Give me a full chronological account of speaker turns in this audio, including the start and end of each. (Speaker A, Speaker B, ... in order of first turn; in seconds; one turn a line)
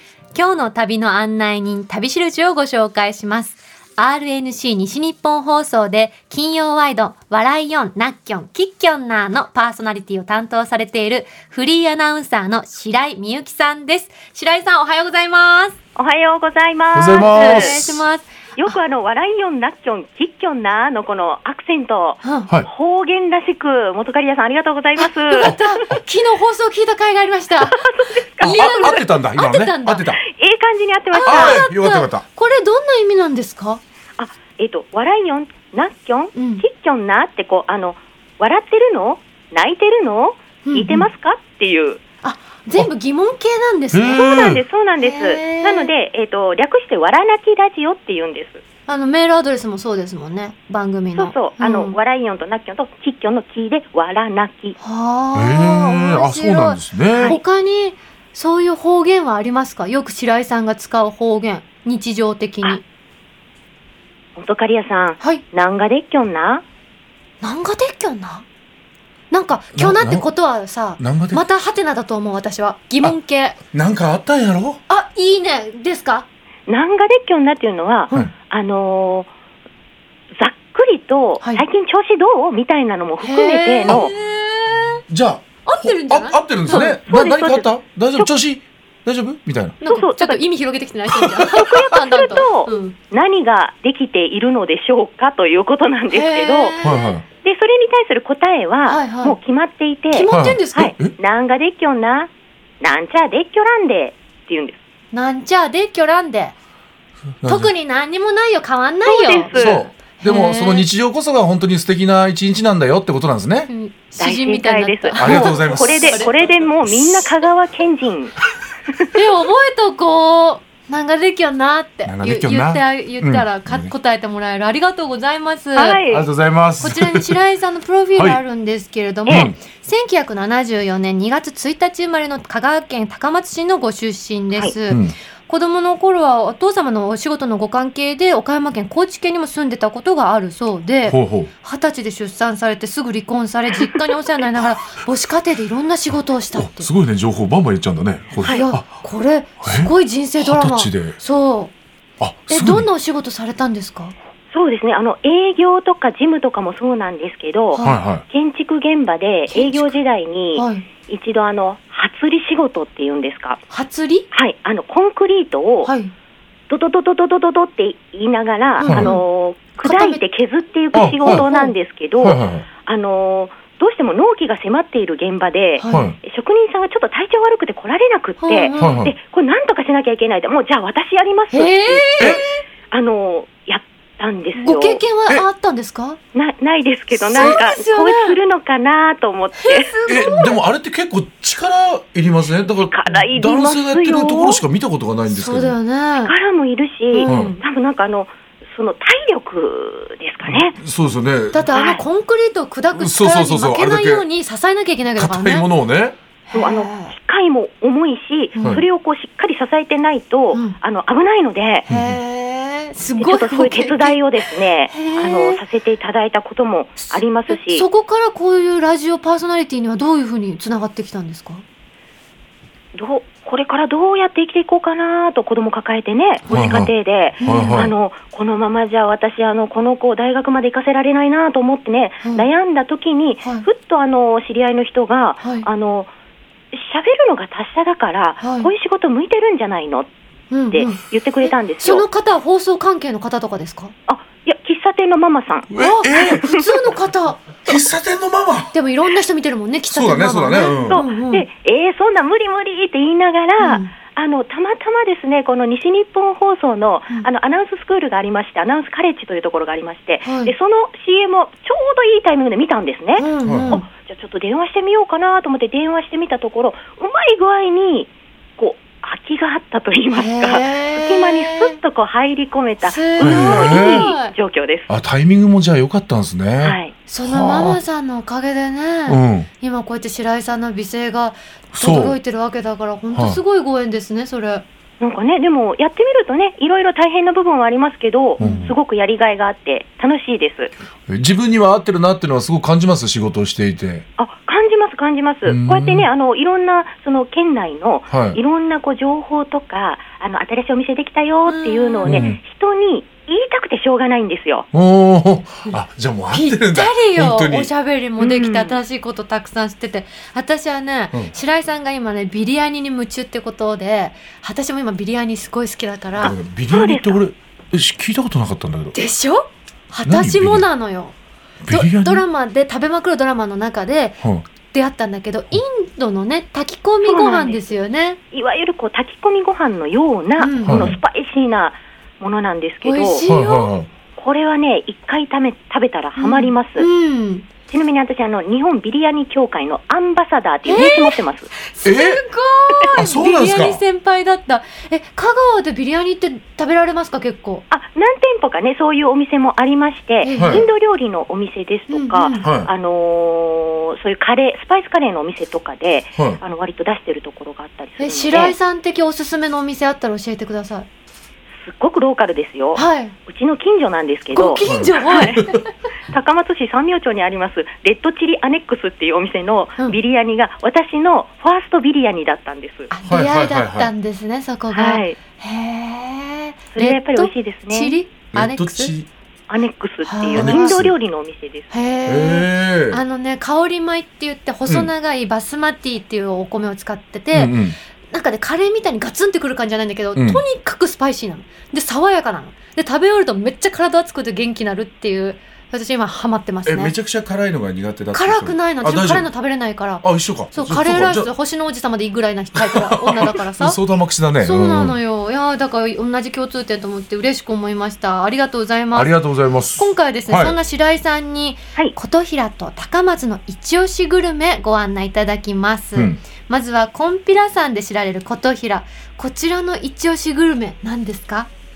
Speaker A: 0.3-15.8
Speaker B: 16.0-18.0
Speaker C: 16.9-17.9
Speaker A: 17.1-18.8
Speaker B: 18.6-25.6
Speaker A: 22.2-22.5
Speaker A: 25.0-27.9
Speaker C: 25.4-26.0
Speaker B: 27.6-29.0
Speaker A: 28.4-30.1
Speaker C: 28.4-30.2
Speaker B: 30.2-31.6
Speaker A: 31.1-33.8
Speaker C: 31.2-32.2
Speaker B: 34.2-42.0
Speaker A: 36.3-36.6
Speaker A: 40.6-41.1
Speaker A: 42.2-45.9
Speaker C: 43.9-44.6
Speaker B: 44.2-48.6
Speaker A: 48.9-52.0
Speaker B: 51.2-54.8
Speaker A: 54.8-62.8
Speaker C: 55.4-57.4
Speaker B: 64.4-66.6
Speaker A: 67.4-68.5
Speaker A: 69.3-73.6
Speaker C: 69.7-70.3
Speaker C: 71.0-71.4
Speaker C: 73.7-74.8
Speaker A: 74.9-76.3
Speaker B: 76.7-79.3
Speaker B: 80.4-84.1
Speaker A: 83.2-85.0
Speaker C: 83.9-84.1
Speaker C: 85.1-89.8
Speaker A: 85.6-87.0
Speaker B: 86.8-88.3
Speaker A: 89.8-93.0
Speaker B: 89.8-90.4
Speaker C: 91.1-91.8
Speaker B: 91.5-96.8
Speaker A: 96.1-97.2
Speaker C: 96.8-97.2
Speaker B: 97.4-104.8
Speaker A: 98.9-99.4
Speaker A: 100.1-101.0
Speaker C: 100.3-101.2
Speaker A: 105.1-106.5
Speaker C: 107.4-107.7
Speaker A: 107.5-110.9
Speaker B: 109.0-109.8
Speaker C: 109.5-113.7
Speaker A: 113.7-116.5
Speaker B: 114.2-118.4
Speaker C: 115.2-116.9
Speaker A: 119.1-126.0
Speaker C: 122.0-123.9
Speaker B: 125.8-126.3
Speaker C: 126.1-127.3
Speaker A: 126.8-146.9
Speaker C: 129.3-129.6
Speaker C: 134.9-135.2
Speaker C: 141.1-141.5
Speaker C: 146.5-148.9
Speaker B: 148.4-148.7
Speaker A: 148.5-151.8
Speaker C: 149.6-151.2
Speaker C: 152.2-152.9
Speaker A: 152.5-154.1
Speaker B: 154.5-163.6
Speaker A: 157.7-158.0
Speaker C: 157.8-158.2
Speaker A: 159.5-159.9
Speaker A: 160.6-160.9
Speaker A: 163.7-164.3
Speaker B: 164.3-165.9
Speaker A: 165.8-166.1
Speaker B: 166.7-185.0
Speaker A: 168.8-169.2
Speaker C: 168.9-169.2
Speaker A: 169.8-170.2
Speaker C: 170.9-171.5
Speaker A: 171.2-171.7
Speaker C: 172.2-172.7
Speaker A: 175.8-176.1
Speaker C: 175.9-176.2
Speaker A: 178.4-179.1
Speaker C: 178.8-179.1
Speaker A: 181.5-182.6
Speaker A: 184.6-186.2
Speaker B: 186.3-189.9
Speaker A: 187.2-188.4
Speaker A: 189.6-190.6
Speaker C: 190.1-195.8
Speaker B: 192.9-194.6
Speaker A: 195.3-196.3
Speaker B: 196.2-200.8
Speaker A: 197.1-197.6
Speaker C: 197.2-197.6
Speaker C: 200.5-201.7
Speaker A: 201.5-205.7
Speaker B: 201.7-202.0
Speaker C: 203.0-204.3
Speaker C: 205.2-206.2
Speaker A: 206.5-207.1
Speaker B: 206.5-211.9
Speaker A: 208.6-208.8
Speaker C: 211.9-212.2
Speaker A: 211.9-215.6
Speaker B: 213.2-217.9
Speaker A: 217.0-221.6
Speaker B: 222.9-236.1
Speaker C: 226.5-227.9
Speaker A: 227.4-227.9
Speaker A: 233.4-233.7
Speaker A: 235.4-235.7
Speaker B: 236.7-240.1
Speaker A: 238.4-238.7
Speaker A: 240.5-243.9
Speaker B: 240.7-242.1
Speaker B: 244.1-245.7
Speaker C: 245.7-246.5
Speaker A: 245.8-247.6
Speaker C: 247.7-248.8
Speaker A: 248.7-251.5
Speaker C: 249.9-251.0
Speaker B: 250.9-274.9
Speaker A: 253.6-253.9
Speaker A: 260.2-260.5
Speaker A: 263.2-263.9
Speaker C: 263.5-263.8
Speaker A: 270.1-271.8
Speaker A: 272.8-274.4
Speaker C: 273.2-274.1
Speaker C: 274.9-277.8
Speaker B: 276.6-276.9
Speaker A: 277.1-284.6
Speaker C: 279.1-279.5
Speaker C: 281.7-282.2
Speaker C: 283.1-283.4
Speaker B: 285.0-290.7
Speaker A: 288.4-288.7
Speaker C: 288.4-288.8
Speaker C: 291.1-294.1
Speaker B: 294.2-304.7
Speaker C: 295.4-296.1
Speaker C: 298.1-298.4
Speaker A: 301.5-302.3
Speaker C: 302.1-302.4
Speaker C: 304.7-307.7
Speaker A: 306.3-316.4
Speaker B: 308.2-308.8
Speaker C: 316.2-319.0
Speaker B: 316.7-317.2
Speaker A: 318.9-321.2
Speaker C: 320.1-320.7
Speaker C: 321.6-322.2
Speaker A: 321.7-328.2
Speaker B: 327.0-327.7
Speaker B: 328.3-333.3
Speaker A: 330.4-330.9
Speaker C: 330.6-331.0
Speaker A: 332.8-333.7
Speaker C: 333.3-333.9
Speaker B: 334.2-336.9
Speaker A: 336.2-337.5
Speaker B: 337.7-341.5
Speaker A: 340.6-347.6
Speaker C: 341.8-342.2
Speaker C: 342.9-343.8
Speaker B: 347.7-358.6
Speaker A: 350.2-350.7
Speaker C: 350.4-350.7
Speaker A: 351.9-352.5
Speaker C: 352.4-352.7
Speaker A: 358.0-360.9
Speaker B: 361.6-365.4
Speaker A: 362.8-363.1
Speaker A: 364.3-365.6
Speaker C: 364.6-365.6
Speaker B: 366.1-372.9
Speaker A: 372.9-378.9
Speaker C: 373.1-373.9
Speaker B: 374.7-375.2
Speaker B: 376.7-378.0
Speaker C: 378.3-379.1
Speaker B: 379.5-381.7
Speaker A: 380.0-380.8
Speaker C: 380.3-380.9
Speaker A: 381.7-396.9
Speaker C: 382.1-383.0
Speaker C: 387.3-387.8
Speaker C: 390.1-390.4
Speaker C: 396.6-399.3
Speaker A: 398.1-403.8
Speaker C: 400.0-401.3
Speaker C: 402.6-405.0
Speaker A: 404.4-409.1
Speaker C: 408.9-410.6
Speaker A: 409.8-421.5
Speaker C: 415.9-416.2